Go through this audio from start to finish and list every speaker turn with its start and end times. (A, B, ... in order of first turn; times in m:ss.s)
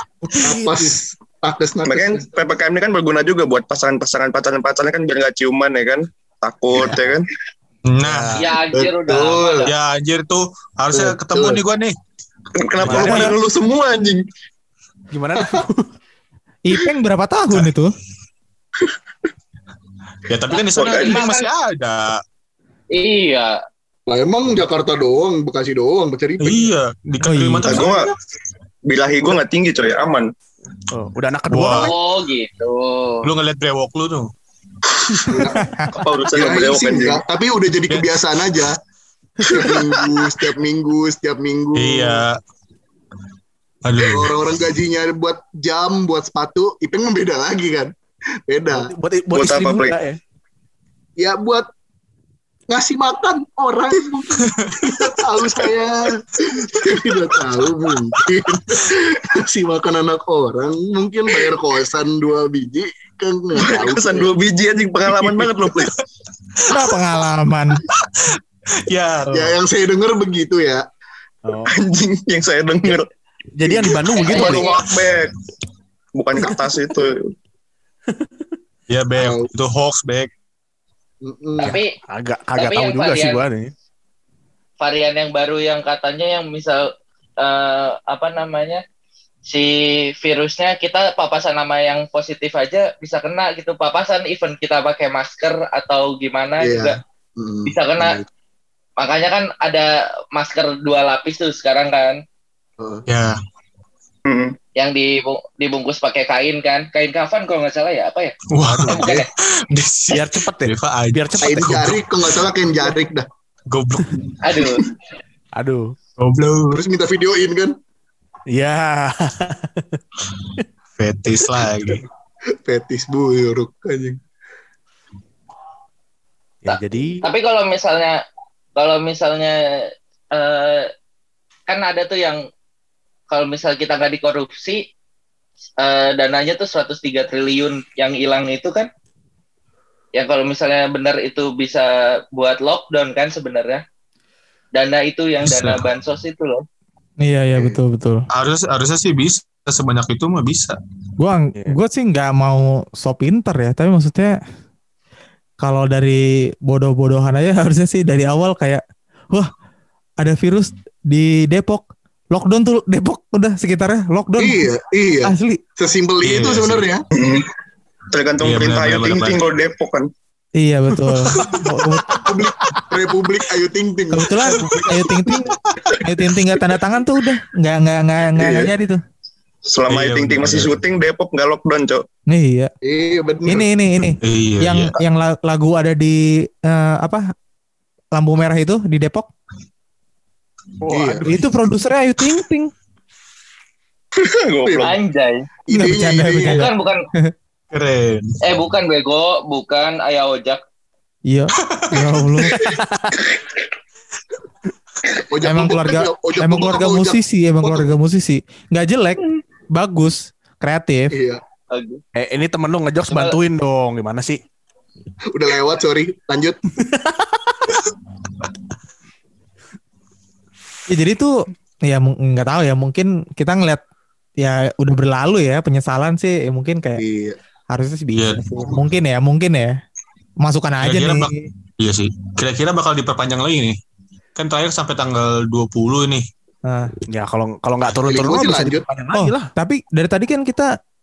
0:00.2-0:01.0 A
0:00.4-0:02.3 B
0:01.9-0:07.3 C
0:07.9-0:08.4 D
0:08.0-0:08.6 A
0:08.4-0:09.7 E
0:08.7-0:09.7 B
0:09.6-0:12.0 D
0:10.9-0:11.6 B
0:12.6-0:14.2 C
0:12.8-0:13.3 A
0:12.8-0:13.1 D
0:15.1-0:15.9 A
0:16.6-0:17.9 F
0:20.3-0:22.2 D
0:20.7-0:21.3 C
0:21.0-0:21.4 E
0:22.9-0:23.6 E
0:24.1-0:26.7 B
0:26.4-0:28.1 D
0:27.2-0:27.8 F
0:27.7-0:28.1 C
0:28.9-0:30.3 C
0:30.9-0:31.9 A
0:31.5-0:31.9 D
0:31.8-0:33.3 E
0:33.2-0:34.3 D
0:35.2-0:35.7 B
0:35.5-0:35.9 F
0:35.9-0:37.2 C
0:36.3-0:38.8 B
0:37.9-0:38.2 D
0:39.4-0:42.2 B
0:41.7-0:42.4 D
0:43.8-0:44.6 D
0:44.0-0:47.9 B
0:48.5-0:48.9 B
0:48.7-0:50.2 A
0:49.3-0:50.0 C
0:51.2-0:51.7 B
0:52.7-1:04.3 B
0:54.5-0:55.0 D
1:03.6-1:05.9 C
1:05.7-1:06.0 D
1:06.6-1:06.9 D
1:06.7-1:07.8 F
1:07.9-1:09.5 D
1:09.3-1:10.8 B
1:11.4-1:11.7 A
1:11.7-1:13.1 C
1:13.6-1:14.7 A
1:13.8-1:15.3 C
1:14.1-1:14.9 E
1:16.1-1:17.3 C
1:18.1-1:18.4 A
1:18.9-1:20.3 D
1:19.2-1:19.5 B
1:21.2-1:21.8 B
1:21.6-1:21.9 E
1:21.6-1:23.7 A
1:22.6-1:23.4 E
1:24.8-1:26.9 E
1:27.4-1:28.8 E
1:29.4-1:37.0 E
1:36.6-1:38.3 B
1:37.7-1:38.2 E
1:39.0-1:42.2 E
1:42.8-1:43.0 B
1:43.1-1:43.4 D
1:44.3-1:44.6 C
1:44.8-1:49.3 E
1:48.5-1:52.1 D
1:48.6-1:49.2 A
1:50.1-1:52.0 A
1:51.4-1:53.3 B
1:53.7-1:54.5 D
1:54.4-1:54.9 E
1:55.6-1:56.0 A
1:56.2-1:56.8 D
1:56.7-1:57.7 B
1:58.5-2:00.0 A
2:01.0-2:02.0 D
2:02.6-2:04.2 B
2:06.6-2:07.3 A
2:06.7-2:08.2 E
2:08.8-2:10.9 E
2:11.7-2:12.4 E
2:13.3-2:14.8 E
2:15.8-2:18.9 E
2:20.1-2:23.8 E
2:24.7-2:26.6 E
2:25.4-2:25.8 D
2:27.2-2:28.2 F
2:28.3-2:30.8 D
2:31.2-2:34.4 F
2:35.6-2:39.5 F
2:40.2-2:44.7 F
2:44.4-2:47.0 B
2:45.2-2:45.6 F
2:46.2-2:46.9 D
2:47.1-2:47.5 C
2:48.1-2:50.1 C
2:48.4-2:49.4 D
2:50.6-2:52.3 F
2:52.1-2:55.3 B
2:54.1-2:59.0 F
2:59.7-3:02.0 C
2:59.9-3:00.8 D
3:02.3-3:02.7 F
3:02.8-3:03.7 B
3:03.5-3:07.3 F
3:04.2-3:05.0 D
3:08.1-3:09.3 F
3:10.8-3:11.5 A
3:10.9-3:11.3 B
3:11.3-3:12.7 F
3:14.2-3:15.0 C
3:14.6-3:14.9 B
3:14.8-3:15.5 E
3:15.7-3:16.6 B
3:15.7-3:17.3 F
3:16.4-3:17.0 E
3:17.7-3:18.4 D
3:18.4-3:20.6 E
3:21.3-3:22.7 F
3:21.6-3:22.8 D
3:22.5-3:23.2 A
3:25.2-3:27.9 B
3:25.4-3:31.1 F
3:31.1-3:31.4 B
3:31.7-3:32.0 E
3:32.1-3:34.4 A
3:33.1-3:33.4 E
3:35.3-3:36.6 B
3:36.8-3:37.7 A
3:40.9-3:43.8 F
3:44.4-3:47.0 F
3:47.0-3:47.4 B
3:47.7-3:49.8 F
3:48.1-3:48.4 D
3:50.4-3:51.5 F
3:50.8-3:53.8 D
3:54.4-3:56.3 D
3:56.7-3:56.9 F
3:57.1-3:59.5 A
3:58.0-3:58.8 B
3:59.1-4:00.7 F